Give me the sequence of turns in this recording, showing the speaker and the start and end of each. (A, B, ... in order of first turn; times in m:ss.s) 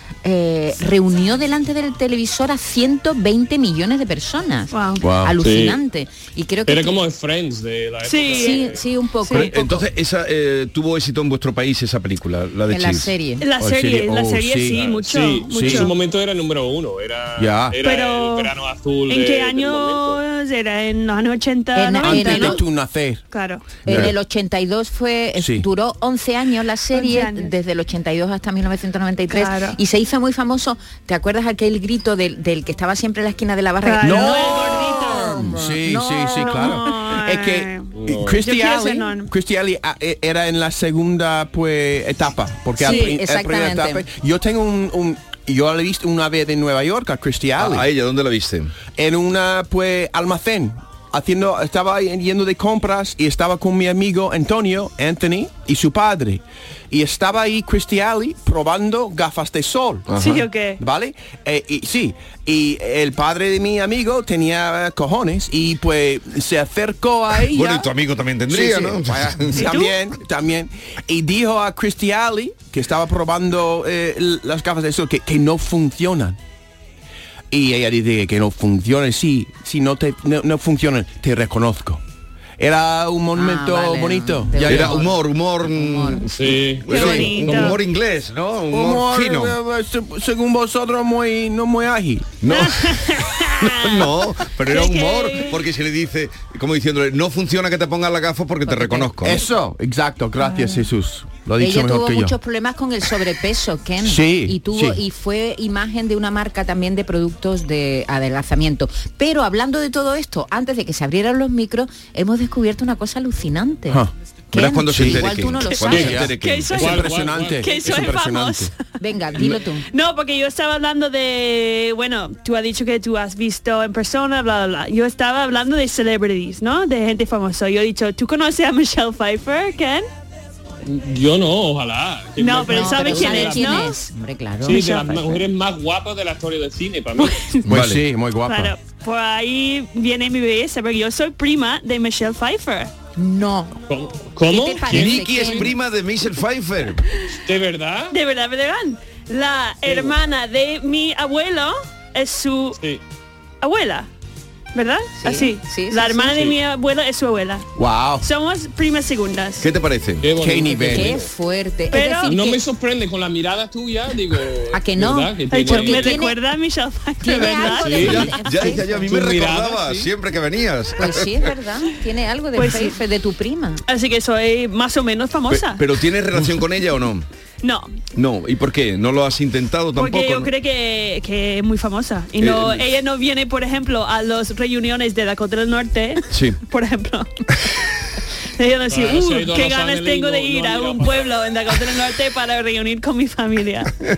0:00.2-0:06.9 A
0:04.7-0:05.0 B
0:05.0-0:05.3 C
0:05.4-0:05.8 D
0:06.6-0:08.8 D
0:08.0-0:08.7 B
0:08.3-0:09.8 A
0:09.2-0:09.5 B
0:09.3-0:13.1 E
0:12.7-0:13.4 A
0:13.4-0:15.9 B
0:13.6-0:14.7 C
0:14.7-0:20.2 D
0:15.5-0:15.9 C
0:17.4-0:17.8 C
0:17.8-0:18.5 B
0:19.1-0:22.7 B
0:21.7-0:22.6 A
0:22.0-0:23.2 C
0:23.3-0:24.0 B
0:23.8-0:24.1 C
0:23.8-0:36.8 A
0:25.4-0:25.6 C
0:26.9-0:27.5 B
0:29.3-0:29.8 B
0:33.8-0:35.6 B
0:34.0-0:47.9 C
0:36.4-0:37.9 B
0:37.9-0:38.4 D
0:38.4-0:39.3 B
0:42.8-0:44.0 A
0:42.8-0:43.1 B
0:47.6-0:48.7 E
0:48.9-1:00.1 C
1:00.1-1:00.4 E
1:00.2-1:00.8 B
1:00.8-1:07.9 C
1:07.5-1:09.7 E
1:08.5-1:16.4 C
1:09.5-1:10.0 B
1:17.5-1:22.0 C
1:22.6-1:25.0 C
1:23.4-1:25.1 A
1:24.6-1:29.6 E
1:25.7-1:26.2 A
1:26.4-1:27.7 D
1:26.9-1:27.8 B
1:26.9-1:27.4 C
1:28.7-1:32.4 C
1:32.4-1:39.4 E
1:32.5-1:35.6 B
1:38.6-1:39.4 A
1:39.2-1:42.4 C
1:40.4-1:40.8 A
1:41.6-1:56.2 A
1:44.0-1:45.0 C
1:54.5-1:56.9 E
1:54.9-1:55.2 C
1:55.8-1:58.7 B
1:55.8-1:58.2 D
1:56.0-1:58.7 C
1:59.0-1:59.8 A
1:59.4-2:10.0 B
2:10.8-2:13.9 D
2:12.4-2:14.0 B
2:12.7-2:15.4 A
2:14.6-2:17.4 D
2:14.7-2:14.9 B
2:17.2-2:17.6 B
2:17.7-2:18.0 E
2:17.7-2:18.7 C
2:18.5-2:22.9 B
2:23.2-2:23.8 A
2:23.9-2:25.7 D
2:24.5-2:25.7 A
2:24.9-2:27.0 E
2:27.4-2:28.1 D
2:28.1-2:32.8 B
2:29.8-2:30.2 D
2:33.6-2:34.1 B
2:34.7-2:37.6 B
2:35.2-2:36.4 A
2:37.8-2:38.2 C
2:38.2-2:39.7 B
2:39.6-2:40.3 E
2:40.2-2:41.2 D
2:40.4-2:41.1 C
2:40.8-2:42.6 A
2:41.9-2:42.4 B
2:42.3-2:46.2 D
2:44.7-2:46.3 A
2:45.5-2:48.7 B
2:47.2-2:48.8 A
2:47.6-2:48.2 D
2:48.0-2:51.5 E
2:49.0-2:50.1 D
2:51.0-2:53.8 A
2:52.6-2:53.0 B
2:53.9-2:55.8 B
2:55.5-2:57.2 E
2:57.6-2:57.9 B
2:58.1-3:00.5 E
3:00.0-3:07.3 B
3:02.4-3:02.8 E
3:06.3-3:06.6 E
3:08.6-3:13.9 B
3:08.9-3:11.3 D